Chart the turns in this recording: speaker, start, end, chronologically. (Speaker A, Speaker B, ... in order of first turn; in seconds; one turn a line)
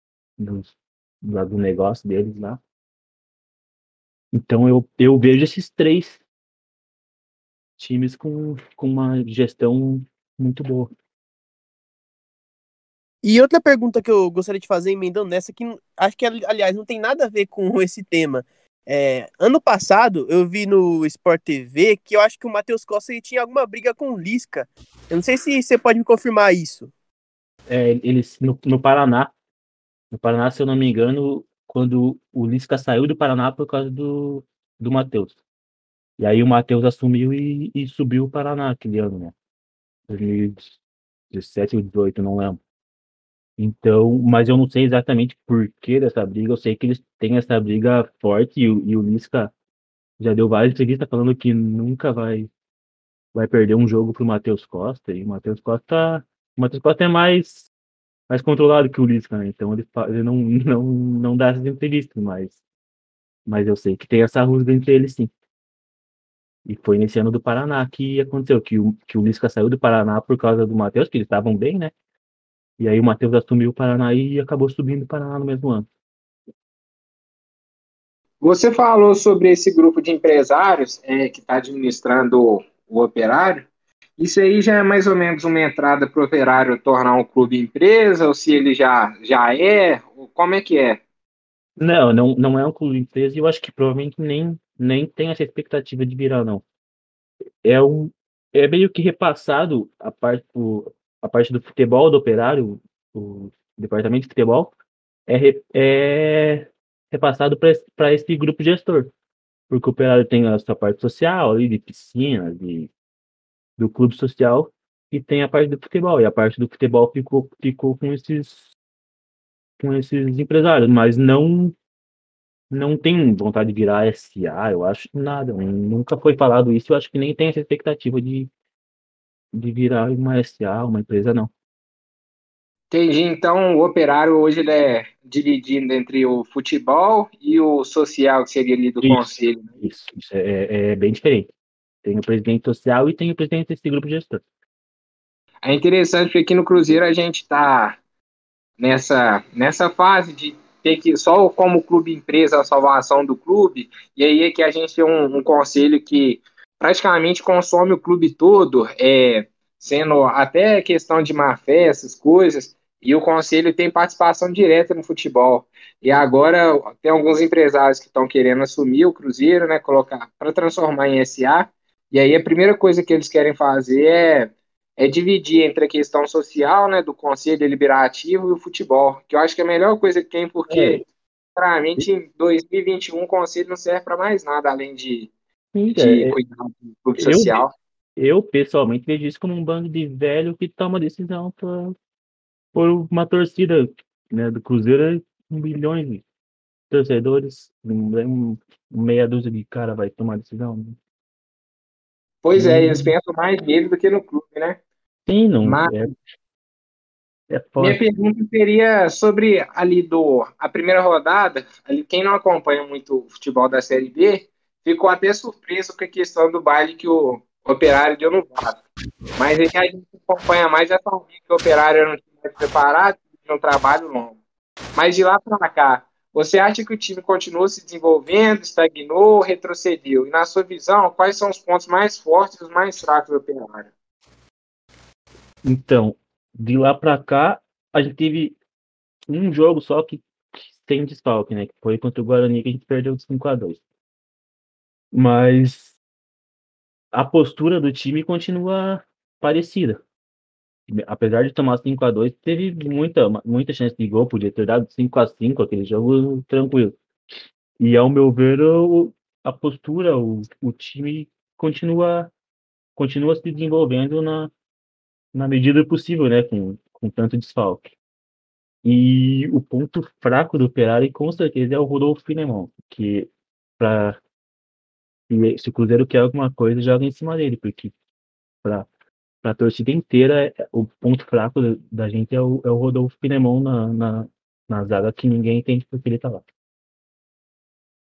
Speaker A: 0.4-2.6
Speaker A: 4.3-6.2
Speaker A: 7.8-10.9
Speaker B: 13.2-26.9
Speaker A: 27.7-29.3
Speaker A: 30.1-35.4
Speaker A: 36.2-39.3
Speaker A: 40.1-40.8
Speaker A: 41.3-42.6
Speaker A: 43.6-49.5
Speaker A: 50.2-52.5
Speaker A: 53.3-57.7
Speaker A: 58.3-62.6
Speaker A: 63.5-65.3
Speaker A: 66.7-71.9
Speaker A: 72.8-75.9
Speaker C: 78.4-91.0
Speaker A: 91.8-96.6
Speaker A: 97.6-104.7
Speaker A: 105.3-109.1
Speaker A: 109.7-112.9
Speaker A: 113.8-118.7
Speaker A: 119.8-121.8
Speaker A: 122.7-128.5
Speaker A: 129.5-131.5
Speaker C: 132.9-139.7
Speaker A: 139.0-141.5
Speaker A: 142.0-144.4
Speaker C: 145.6-148.0
Speaker C: 148.8-181.0
Speaker A: 180.7-181.0
Speaker C: 181.6-185.3
Speaker A: 185.7-186.3
Speaker C: 185.9-187.7
Speaker A: 187.2-187.6
Speaker A: 188.2-191.9
Speaker A: 192.7-196.2
Speaker A: 196.9-201.0
Speaker C: 202.4-204.8
Speaker A: 202.5-203.1
Speaker A: 205.3-206.1
Speaker C: 205.6-205.9
Speaker A: 207.5-208.0
Speaker C: 207.8-218.8
Speaker C: 219.4-224.4
Speaker C: 224.9-233.9
Speaker A: 235.6-238.6
Speaker A: 239.3-243.8
Speaker A: 245.1-245.9
Speaker A: 247.1-250.0
Speaker A: 250.9-257.0
Speaker A: 257.8-262.3
Speaker A: 262.9-264.5
Speaker A: 265.3-267.9
Speaker A: 268.8-274.2
Speaker A: 275.3-277.9
Speaker A: 279.4-286.4